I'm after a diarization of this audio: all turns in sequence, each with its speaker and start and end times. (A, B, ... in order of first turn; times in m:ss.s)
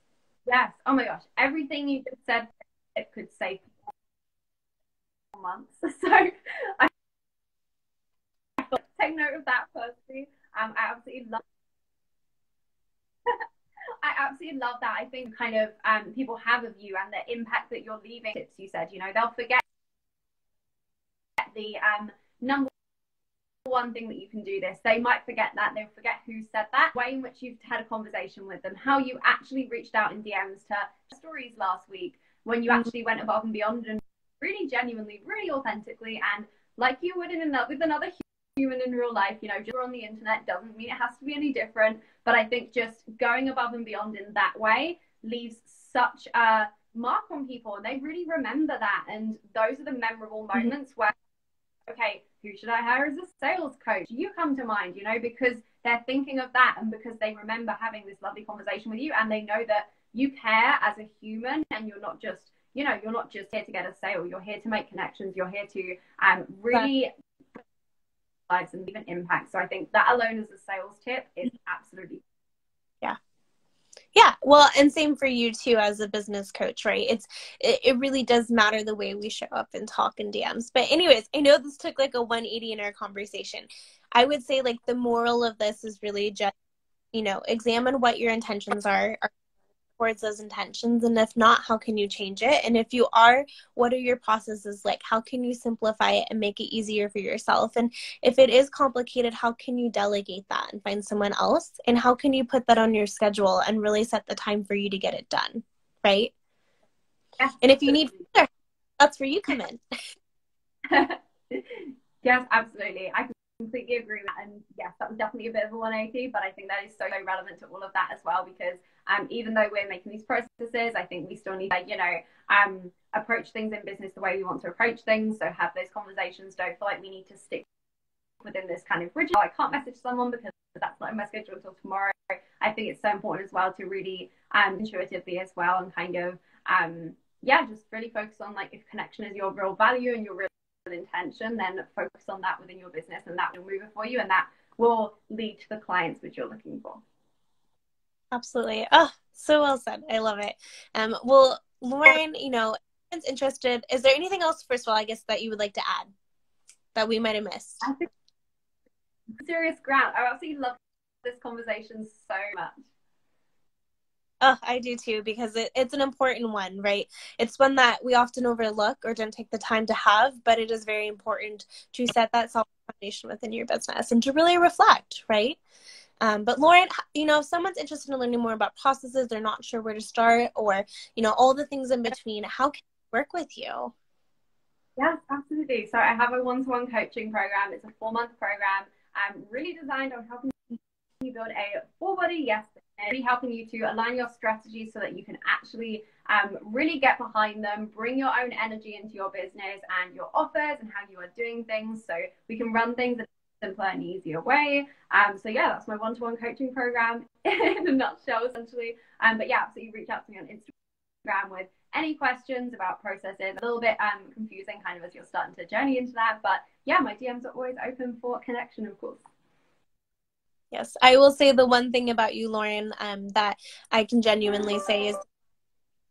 0:00.5-0:03.9 A
0:05.3-0:06.9 A
0:08.6-0:11.4 A
0:14.0-0:19.6 A
0:21.4-0:22.7 A
0:23.6-0:51.2 A
0:51.9-1:07.1 A
1:08.5-1:12.2 A
1:14.2-1:26.5 B
1:27.1-1:29.3 B
1:30.0-1:46.3 B
1:47.4-1:48.2 A
1:47.6-1:49.8 B
1:50.8-2:07.7 A
2:08.4-2:27.0 A
2:28.3-2:36.1 B
2:37.0-2:37.9 B
2:37.8-2:38.1 A
2:39.3-2:42.9 A
2:44.4-2:55.6 B
2:56.2-3:03.9 B
3:05.0-3:30.7 A
3:31.2-3:39.2 A
3:40.7-3:45.2 B